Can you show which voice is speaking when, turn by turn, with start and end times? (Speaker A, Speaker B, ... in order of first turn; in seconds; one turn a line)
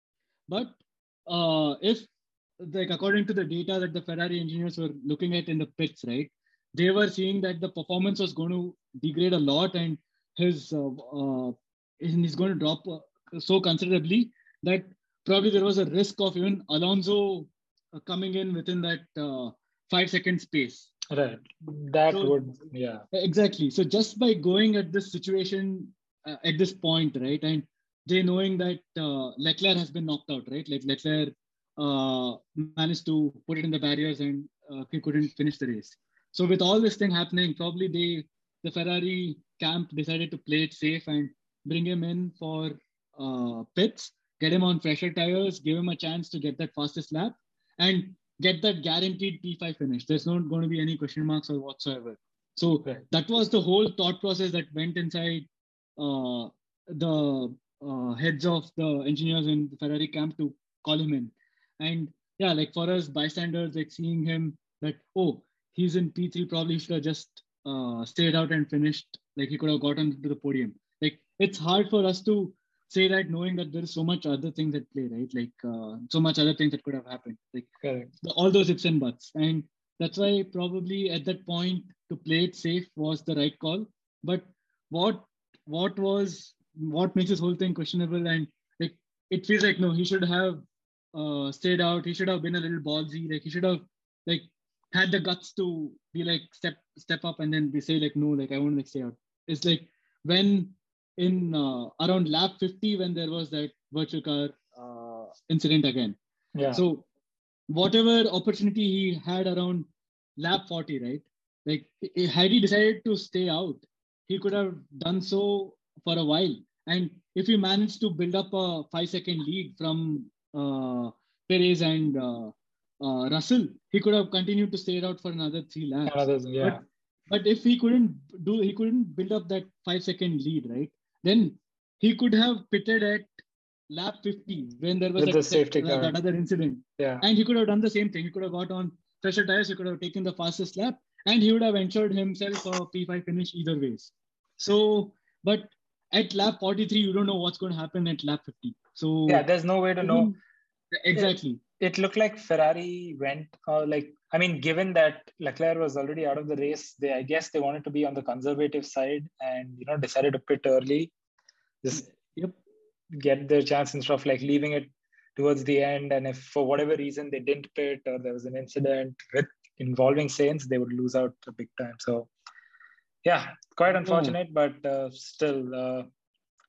Speaker A: 0.5-20.9
Speaker B: 21.1-23.1
Speaker A: 22.1-22.4
Speaker A: 23.1-77.7
Speaker B: 77.8-78.1
Speaker A: 78.2-106.2
Speaker B: 106.5-106.8
Speaker A: 106.7-107.1
Speaker A: 107.7-133.3
Speaker B: 126.0-126.8
Speaker A: 133.9-149.4
Speaker B: 135.2-136.2
Speaker B: 137.0-137.2
Speaker B: 149.3-150.3
Speaker A: 150.0-150.4
Speaker A: 150.9-151.6
Speaker B: 151.8-161.1
Speaker A: 161.9-162.6
Speaker B: 163.1-172.3
Speaker B: 173.2-176.1
Speaker A: 173.9-174.4